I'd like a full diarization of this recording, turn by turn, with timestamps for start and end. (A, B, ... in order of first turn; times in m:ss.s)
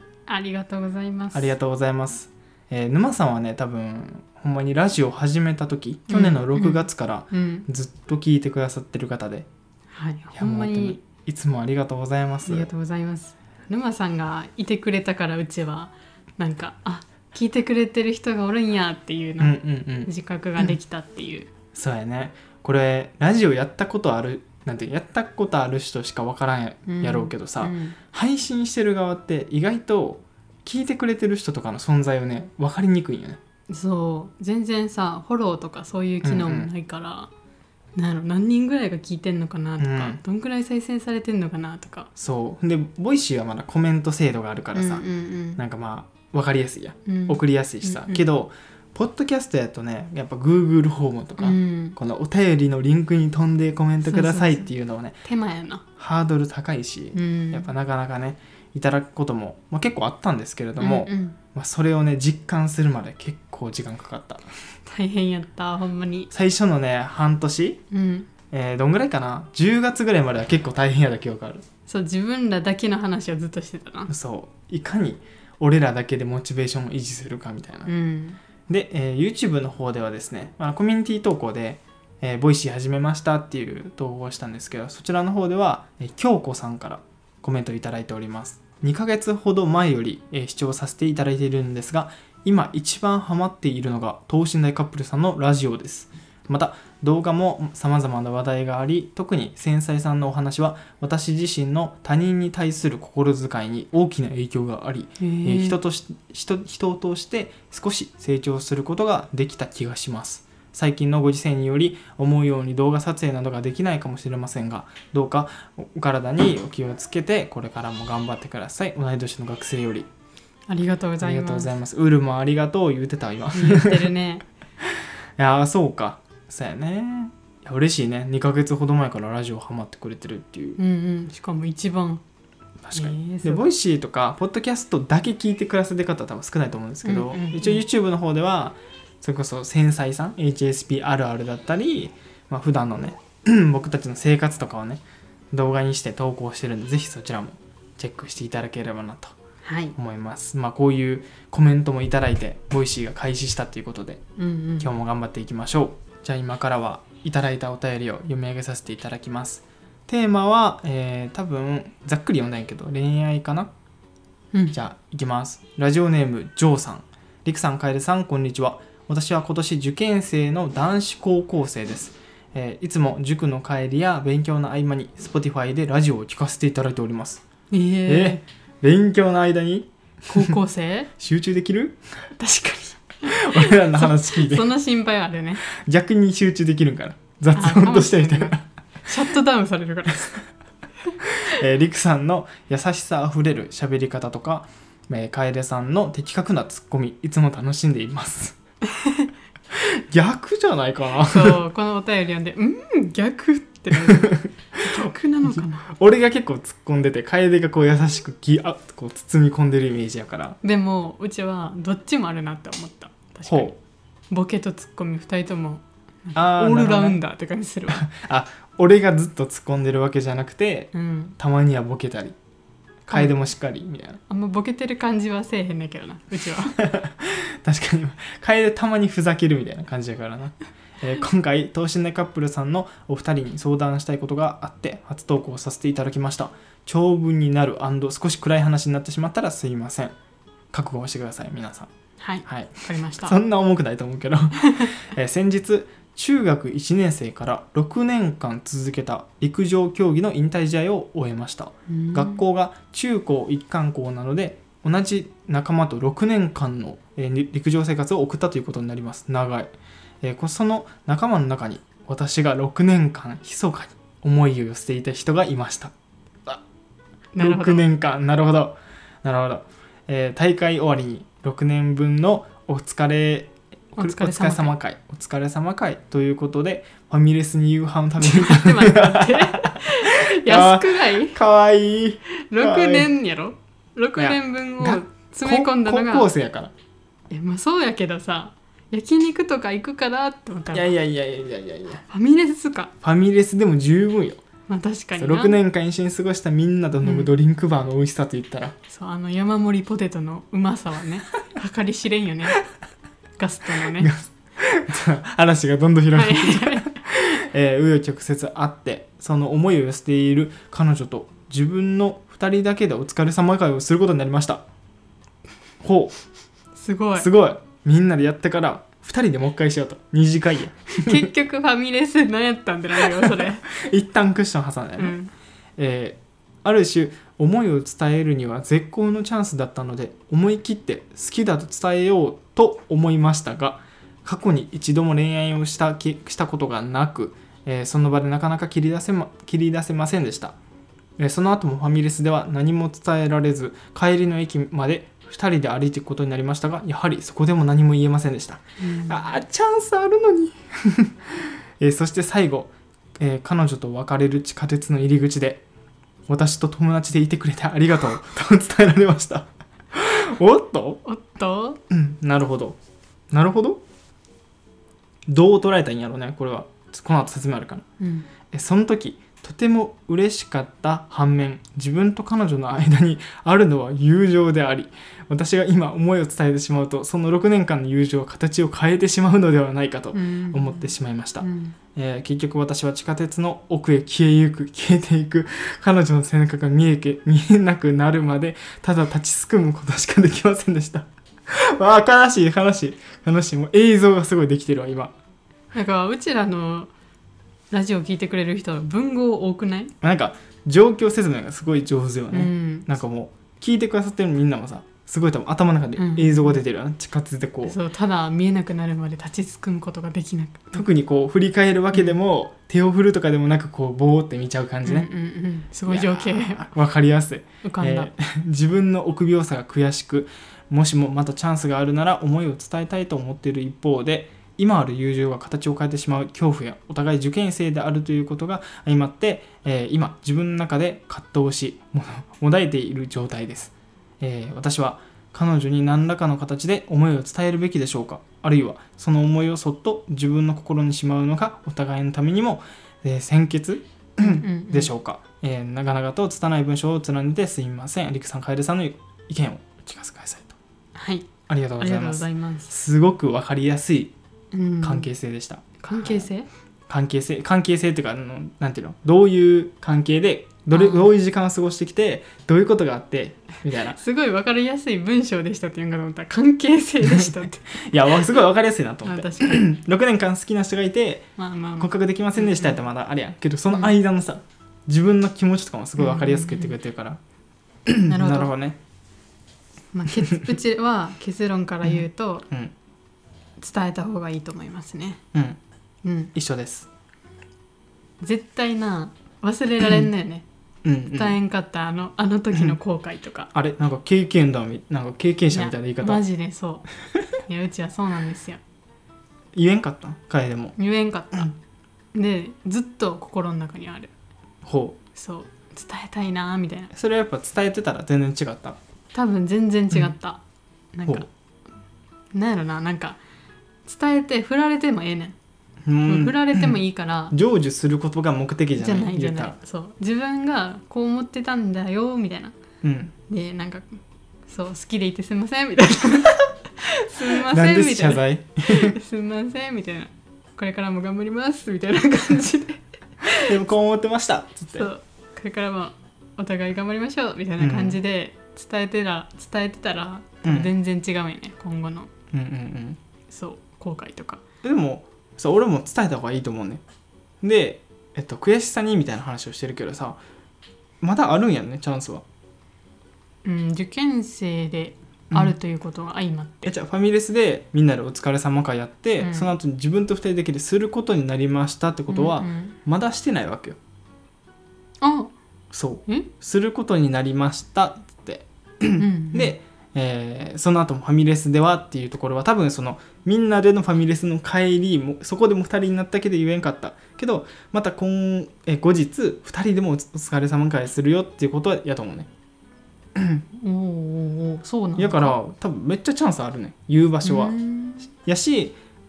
0:00.3-0:01.5 A
0:01.3-0:09.5 B
0:06.1-0:07.7 A
0:09.9-0:11.0 A
0:10.3-0:12.7 B
0:12.4-0:21.5 A
0:19.4-0:20.7 B
0:21.7-0:33.4 B
0:26.9-0:28.0 A
0:33.7-0:37.3 A
0:36.2-0:36.7 B
0:37.9-0:42.1 A
0:39.8-0:40.2 B
0:42.2-0:45.0 B
0:44.7-0:45.6 A
0:45.6-0:55.2 B
0:47.0-0:48.2 A
0:51.4-0:52.0 A
0:54.0-0:54.7 A
0:55.2-0:55.8 A
0:56.0-1:04.4 B
0:57.1-0:57.7 A
1:00.8-1:01.4 A
1:04.8-1:06.3 A
1:06.3-1:07.8 B
1:07.9-1:08.3 A
1:08.5-1:11.6 B
1:11.9-1:14.1 A
1:14.1-1:17.9 B
1:17.8-1:18.4 A
1:18.7-2:00.1 B
1:45.2-1:45.8 A
2:00.7-2:01.7 A
2:01.2-2:04.1 B
2:03.5-2:04.4 A
2:04.8-2:10.8 B
2:10.8-2:12.2 A
2:12.8-2:29.4 B
2:12.9-2:13.6 A
2:17.0-2:17.8 A
2:29.6-2:29.9 A
2:30.0-2:34.2 B
2:34.4-2:34.9 A
2:34.8-2:43.7 B
2:44.7-2:57.4 B
2:57.7-2:58.4 A
2:58.0-3:00.5 B
3:00.3-3:01.1 A
3:01.2-3:02.0 B
3:02.4-3:05.6 A
3:03.2-3:04.7 B
3:05.6-3:08.6 B
3:07.5-3:10.4 A
3:11.2-3:18.6 B
3:18.8-3:19.3 A
3:19.7-3:21.6 B
3:21.2-3:25.9 A
3:24.0-3:30.6 B
3:30.6-3:33.7 A
3:33.5-3:33.7 B
3:34.3-3:38.0 A
3:36.3-3:37.2 B
3:37.9-3:42.4 B
3:40.9-3:41.3 A
3:43.0-3:44.2 B
3:44.3-3:46.8 A
3:46.8-4:00.1 B
4:00.7-4:01.9 B
4:02.2-4:03.4 A
4:02.4-4:25.9 B
4:04.6-4:04.9 A
4:11.9-4:12.4 A
4:27.3-4:27.9 A
4:27.4-4:43.1 B
4:34.0-4:34.7 A
4:38.2-4:41.4 A
4:42.5-4:46.3 A
4:44.2-4:46.7 B
4:47.3-4:50.9 A
4:50.7-4:52.0 B
4:52.1-4:52.9 A
4:53.0-4:54.4 B
4:54.7-4:55.6 A
4:55.2-4:58.8 B
4:57.0-4:57.3 A
4:58.9-5:02.6 A
5:03.4-5:04.1 A
5:03.9-5:14.6 B
5:06.1-5:06.9 A
5:15.8-5:16.2 B
5:16.8-5:17.3 A
5:17.2-5:21.3 B
5:21.0-5:23.6 A
5:23.1-5:25.1 B
5:25.0-5:25.3 A
5:25.8-5:40.6 B
5:41.2-5:55.6 B
5:48.8-5:49.2 A
5:56.3-6:01.0 B
6:01.0-6:01.8 A
6:01.9-6:02.8 B
6:03.3-6:03.8 B
6:05.3-6:07.9 B
6:08.0-6:08.3 A
6:08.5-6:35.1 B
6:20.1-6:21.8 A
6:35.7-6:36.9 A
6:37.7-6:39.9 A
6:40.0-6:47.8 B
6:42.3-6:42.9 A
6:46.0-6:46.6 A
6:47.6-6:50.8 A
6:50.7-6:55.1 B
6:54.8-6:56.7 A
6:55.9-7:30.6 B
6:57.6-6:58.1 A
7:24.2-7:24.9 A
7:30.9-7:32.7 A
7:31.5-7:34.1 B
7:34.5-7:35.1 A
7:34.8-7:36.3 B
7:35.8-7:36.5 A
7:36.9-7:44.0 B
7:40.7-7:41.1 A
7:43.9-7:48.4 A
7:47.0-7:57.2 B
7:49.0-7:49.7 A
7:51.4-7:52.8 A
7:56.0-7:56.8 A
7:57.8-7:58.8 B
7:58.1-7:58.5 A
7:59.9-8:02.5 A
8:03.6-8:05.2 A
8:05.3-8:05.6 B
8:06.0-8:06.3 A
8:06.3-8:06.9 B
8:08.2-8:10.4 A
8:10.8-8:11.4 B
8:11.1-8:13.5 A
8:13.5-8:16.2 B
8:15.5-8:16.9 A
8:17.4-8:18.6 A
8:19.5-8:20.8 B
8:20.8-8:21.5 A
8:22.1-8:24.1 A
8:24.6-8:25.0 B
8:25.1-8:26.9 A
8:26.9-8:28.8 B
8:29.1-8:30.4 A
8:30.9-8:31.3 A
8:32.3-8:33.2 A
8:33.8-8:35.4 A
8:35.8-8:36.8 B
8:36.0-8:37.3 A
8:37.3-8:39.6 B
8:38.8-8:42.5 A
8:42.8-8:43.1 B
8:43.3-8:53.5 A
8:47.2-8:48.9 B
8:53.3-8:54.9 B
8:54.7-9:02.1 A
8:57.6-8:58.0 B
9:00.4-9:00.7 B
9:02.3-9:03.0 B
9:03.3-9:04.4 A
9:04.6-9:06.8 B
9:07.4-9:10.2 B
9:11.0-9:12.2 B
9:13.4-9:16.7 A
9:16.6-9:23.8 B
9:19.2-9:19.5 A
9:22.1-9:22.8 A
9:25.0-9:25.3 A
9:25.7-9:42.3 B
9:29.0-9:29.5 A
9:43.2-9:43.4 B
9:43.5-9:45.4 A
9:45.0-9:47.6 B
9:47.2-9:48.1 A
9:48.2-9:48.8 B